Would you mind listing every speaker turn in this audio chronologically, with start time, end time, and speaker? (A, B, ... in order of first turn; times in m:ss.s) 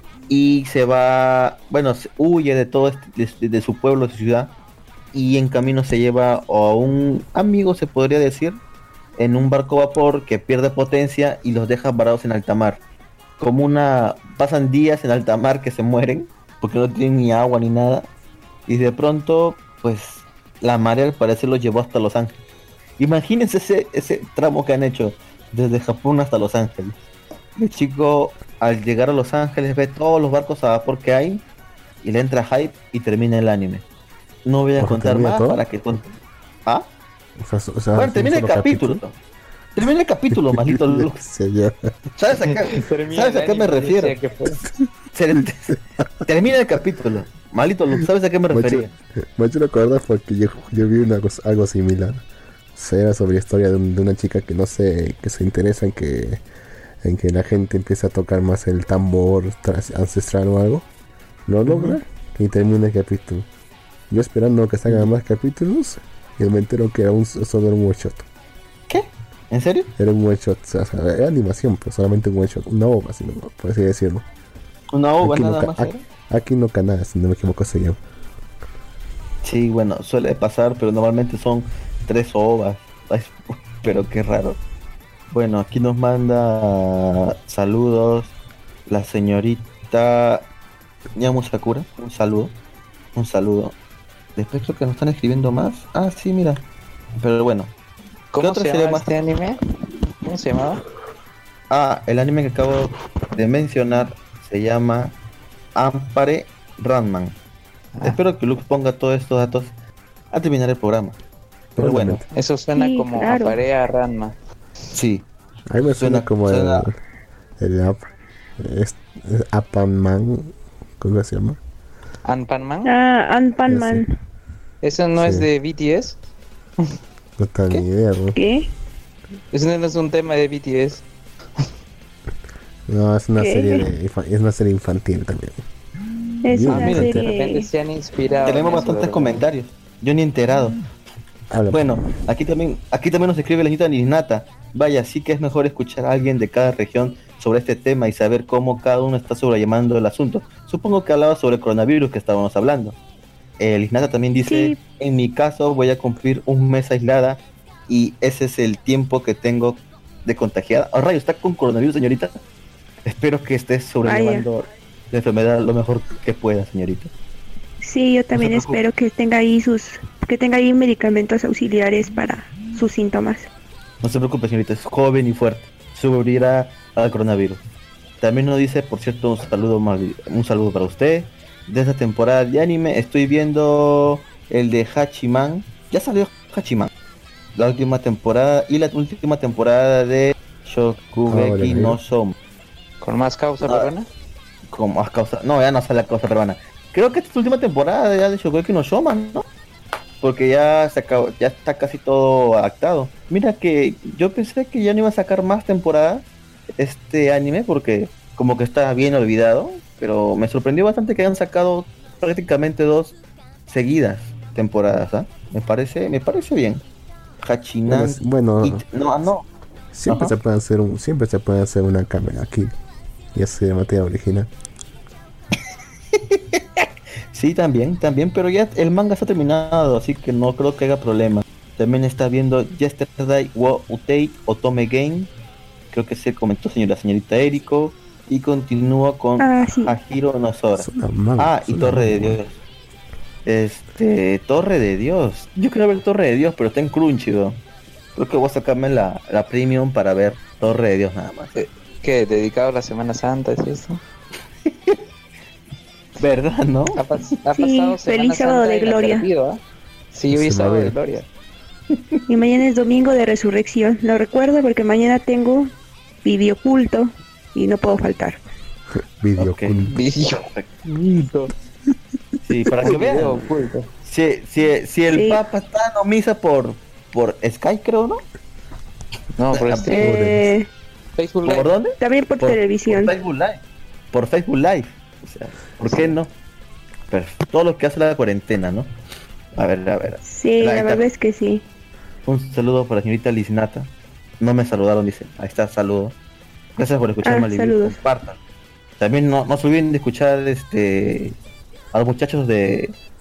0:00.3-0:04.5 A
0:05.1-0:08.6 A
0:09.2-0:12.8 A
0:13.4-0:18.1 A
0:18.7-0:22.4 A
0:23.0-0:27.0 A
0:27.6-0:31.4 A
0:32.0-0:33.8 A
0:34.5-0:36.9 A
0:34.8-0:35.6 B
0:37.4-0:39.0 B
0:38.0-0:39.2 A
0:39.8-0:41.2 A
0:40.3-0:42.0 B
0:42.2-0:44.2 A
0:42.7-0:44.6 C
0:45.1-0:48.9 A
0:48.5-0:56.4 B
0:57.0-1:00.9 B
1:01.5-1:03.5 B
1:01.7-1:02.0 A
1:04.1-1:08.3 B
1:04.9-1:05.1 A
1:08.9-1:09.9 A
1:10.0-1:14.2 B
1:14.9-1:16.0 A
1:15.2-1:18.0 B
1:19.4-1:24.6 A
1:25.3-1:28.3 A
1:28.9-1:30.5 A
1:31.2-1:32.5 A
1:33.2-1:33.8 A
1:34.4-1:36.6 A
1:37.2-1:37.7 A
1:38.3-1:39.6 C
1:38.4-1:39.1 A
1:40.2-1:40.8 C
1:41.7-1:45.2 A
1:45.8-1:47.4 A
1:48.0-1:49.7 A
1:50.3-1:51.2 A
1:51.8-1:52.2 A
1:51.8-1:52.2 B
1:52.3-1:54.4 C
1:52.8-1:53.6 D
1:54.9-1:55.3 A
1:55.7-1:57.0 B
1:55.9-1:56.8 A
1:57.6-1:58.0 B
1:58.6-2:01.6 B
2:02.2-2:02.9 C
2:02.8-2:04.1 D
2:03.7-2:04.0 B
2:04.8-2:06.2 C
2:05.2-2:05.5 B
2:07.4-2:08.4 B
2:08.4-2:08.6 D
2:09.5-2:11.0 C
2:12.9-2:15.6 B
2:13.4-2:13.9 D
2:16.4-2:17.7 D
2:16.5-2:17.2 B
2:16.7-2:19.4 C
2:16.7-2:17.1 A
2:18.4-2:20.7 A
2:21.5-2:21.9 B
2:21.7-2:33.0 A
2:33.6-2:42.4 A
2:34.5-2:34.8 D
2:43.1-2:47.1 A
2:44.0-2:44.5 D
2:47.8-2:53.5 D
2:48.4-2:48.8 A
2:54.0-2:57.6 A
2:58.2-3:06.9 A
3:07.6-3:12.4 A
3:11.3-3:12.0 B
3:13.0-3:14.1 C
3:13.6-3:13.9 A
3:14.7-3:19.4 A
3:20.2-3:26.3 A
3:26.8-3:33.2 A
3:33.7-3:36.8 A
3:37.4-3:39.5 A
3:37.9-3:38.8 B
3:39.9-3:42.7 B
3:40.1-3:40.3 A
3:43.3-3:44.5 B
3:46.2-3:55.3 A
3:55.9-4:02.5 A
3:59.4-4:00.0 D
4:00.8-4:02.4 B
4:03.4-4:07.6 A
4:08.2-4:11.6 A
4:11.6-4:14.0 C
4:14.7-4:15.0 A
4:16.2-4:17.0 A
4:17.0-4:19.6 C
4:17.6-4:19.3 D
4:20.1-4:21.3 C
4:20.3-4:21.0 B
4:22.3-4:25.7 D
4:26.2-4:28.4 D
4:29.2-4:30.0 B
4:29.4-4:29.8 A
4:29.9-4:31.5 C
4:30.4-4:30.7 A
4:32.4-4:33.4 A
4:32.8-4:33.9 C
4:34.0-4:38.2 A
4:35.2-4:35.4 D
4:39.4-4:40.0 C
4:39.5-4:40.0 A
4:40.0-4:40.7 D
4:40.0-4:40.5 B
4:41.2-4:41.7 C
4:41.4-4:46.3 A
4:42.0-4:43.1 D
4:47.1-4:48.9 A
4:49.6-4:51.1 A
4:50.2-4:51.6 D
4:52.3-4:56.2 A
4:56.8-4:58.4 A
4:57.2-4:58.0 D
4:59.0-5:01.4 A
5:01.9-5:03.0 A